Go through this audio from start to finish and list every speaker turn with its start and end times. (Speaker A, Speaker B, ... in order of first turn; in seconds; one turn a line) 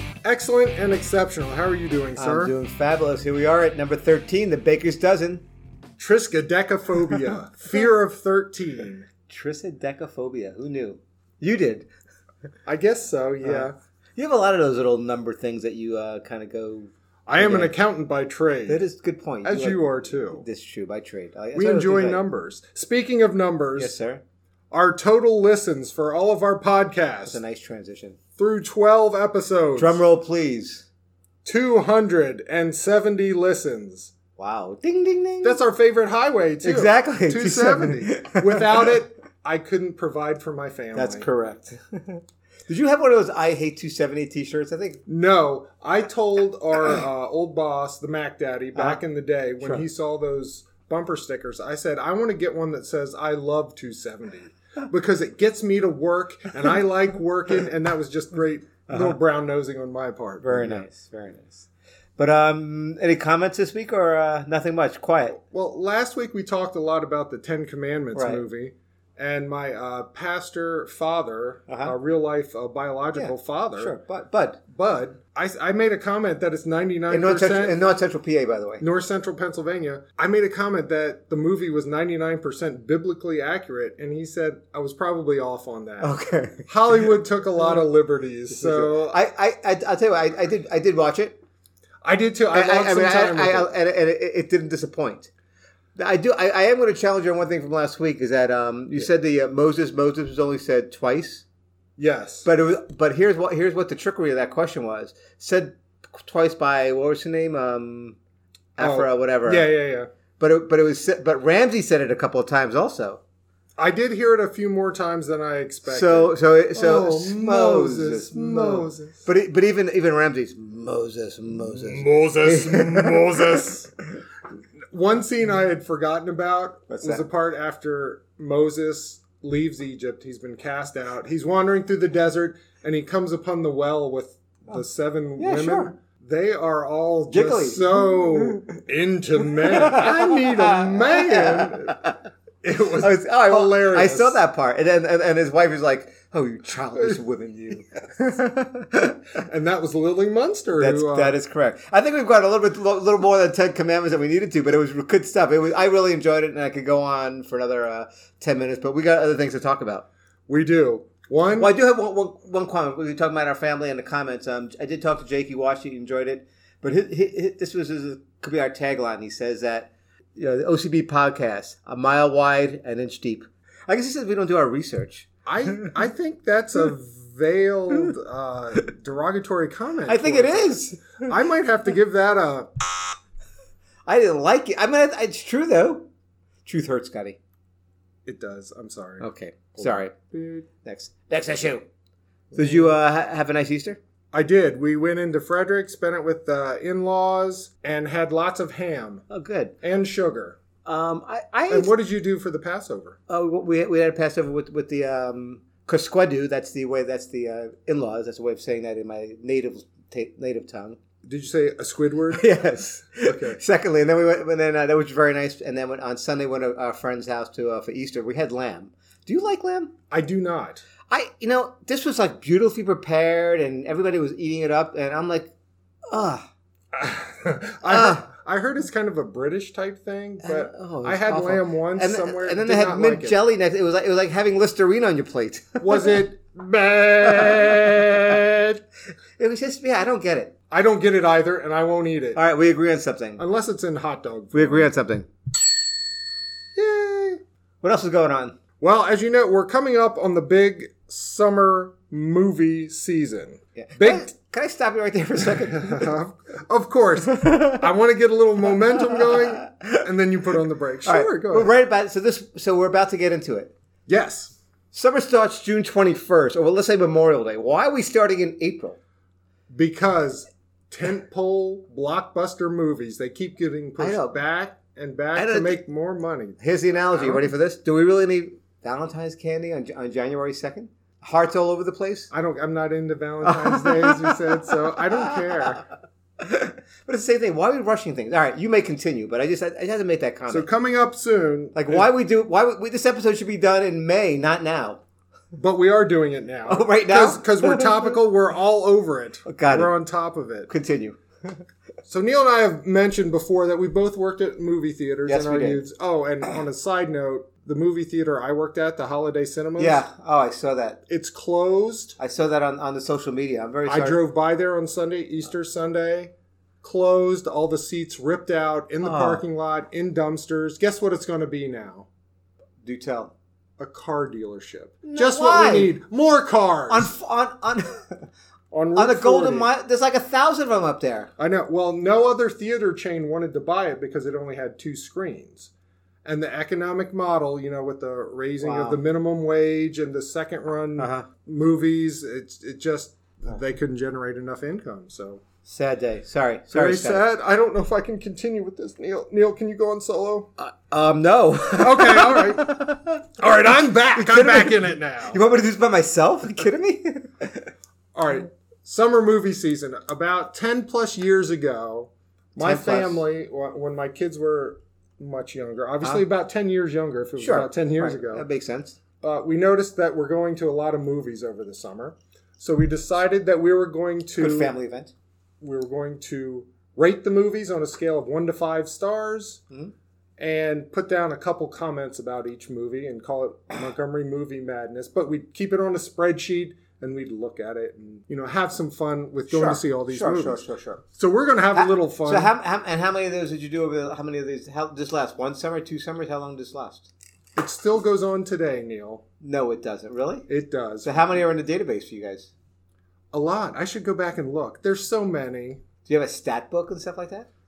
Speaker A: 0.2-2.5
Speaker B: 2.2-5.5
Speaker A: 6.0-9.1
Speaker B: 9.3-11.9
Speaker A: 12.7-13.7
Speaker B: 13.4-17.7
Speaker A: 17.3-18.8
Speaker B: 18.7-22.2
Speaker A: 19.4-20.4
Speaker A: 21.5-23.9
Speaker B: 23.8-24.2
Speaker A: 24.7-27.4
Speaker B: 27.3-28.2
Speaker A: 28.4-30.0
Speaker B: 29.8-30.9
Speaker A: 31.4-34.1
Speaker B: 34.4-35.6
Speaker A: 35.4-41.3
Speaker B: 36.6-38.9
Speaker B: 40.9-45.0
Speaker A: 45.1-60.9
Speaker B: 58.9-59.2
Speaker B: 60.4-61.7
Speaker B: 62.2-65.4
Speaker A: 65.3-74.0
Speaker B: 68.1-68.4
Speaker B: 71.7-71.9
Speaker B: 73.1-74.6
Speaker A: 74.7-77.8
Speaker B: 77.1-78.8
Speaker A: 78.8-86.1
Speaker B: 86.0-87.1
Speaker A: 86.7-89.2
Speaker B: 88.5-91.4
Speaker A: 92.0-93.7
Speaker B: 92.5-95.3
Speaker B: 96.0-101.4
Speaker A: 102.0-102.5
Speaker B: 102.4-108.2
Speaker B: 108.8-109.7
Speaker A: 108.8-110.1
Speaker B: 110.4-113.2
Speaker A: 113.8-119.3
Speaker B: 115.8-123.7
Speaker A: 121.6-123.9
Speaker A: 124.9-142.1
Speaker B: 126.9-127.2
Speaker B: 135.4-135.9
Speaker B: 137.3-138.7
Speaker B: 139.4-142.2
Speaker A: 142.6-144.4
Speaker B: 143.0-149.2
Speaker A: 149.3-151.3
Speaker B: 150.8-160.1
Speaker A: 160.5-161.7
Speaker B: 161.6-175.9
Speaker A: 175.4-182.7
Speaker B: 180.1-181.3
Speaker B: 184.1-186.1
Speaker B: 186.6-187.4
Speaker A: 188.2-190.7
Speaker B: 189.2-190.1
Speaker B: 190.8-191.8
Speaker A: 192.5-192.9
Speaker B: 192.5-194.0
Speaker A: 194.3-199.2
Speaker B: 199.3-199.8
Speaker A: 199.8-200.6
Speaker B: 200.8-201.9
Speaker A: 201.7-203.2
Speaker B: 203.3-211.0
Speaker A: 211.2-212.6
Speaker B: 212.3-219.9
Speaker A: 213.2-213.6
Speaker A: 220.1-220.8
Speaker B: 221.1-225.5
Speaker B: 226.1-226.4
Speaker A: 226.9-233.4
Speaker B: 227.8-228.3
Speaker B: 230.4-236.2
Speaker A: 235.8-238.8
Speaker B: 237.3-238.1
Speaker B: 239.4-240.5
Speaker A: 240.7-242.4
Speaker B: 242.3-243.4
Speaker A: 243.4-244.9
Speaker B: 244.5-245.3
Speaker A: 246.7-247.4
Speaker B: 247.8-248.6
Speaker A: 248.8-254.3
Speaker B: 253.8-256.1
Speaker A: 255.5-261.7
Speaker B: 257.3-257.9
Speaker B: 259.0-260.1
Speaker B: 261.1-263.7
Speaker A: 264.1-264.6
Speaker B: 264.9-269.0
Speaker A: 269.7-277.5
Speaker B: 274.0-274.4
Speaker B: 275.4-275.8
Speaker B: 276.6-282.3
Speaker A: 282.3-285.8
Speaker B: 283.4-285.8
Speaker B: 286.4-290.7
Speaker A: 290.5-292.1
Speaker B: 291.8-295.0
Speaker A: 295.5-300.7
Speaker B: 296.7-298.1
Speaker B: 299.5-299.9
Speaker B: 300.7-301.6
Speaker A: 302.1-310.0
Speaker B: 305.2-305.8
Speaker B: 309.8-311.0
Speaker A: 311.1-312.2
Speaker B: 312.2-314.2
Speaker A: 313.9-322.1
Speaker B: 319.0-319.4
Speaker B: 322.8-323.3
Speaker A: 323.8-327.1
Speaker B: 325.0-325.9
Speaker B: 326.9-328.2
Speaker A: 328.7-329.7
Speaker B: 329.0-331.3
Speaker A: 331.4-335.7
Speaker A: 336.2-345.4
Speaker B: 338.6-339.0
Speaker B: 341.0-341.3
Speaker B: 345.6-347.2
Speaker A: 346.7-350.5
Speaker B: 350.6-353.3
Speaker A: 351.7-352.7
Speaker A: 353.4-355.4
Speaker B: 354.1-357.7
Speaker A: 358.1-368.4
Speaker B: 362.6-363.2
Speaker B: 367.4-369.0
Speaker A: 369.2-374.7
Speaker B: 374.4-375.1
Speaker A: 375.6-379.6
Speaker A: 380.4-392.5
Speaker B: 389.5-391.0
Speaker B: 391.8-397.1
Speaker A: 397.6-399.2
Speaker B: 399.4-400.5
Speaker A: 400.5-401.4
Speaker B: 401.0-402.5
Speaker A: 403.3-405.8
Speaker B: 406.1-407.5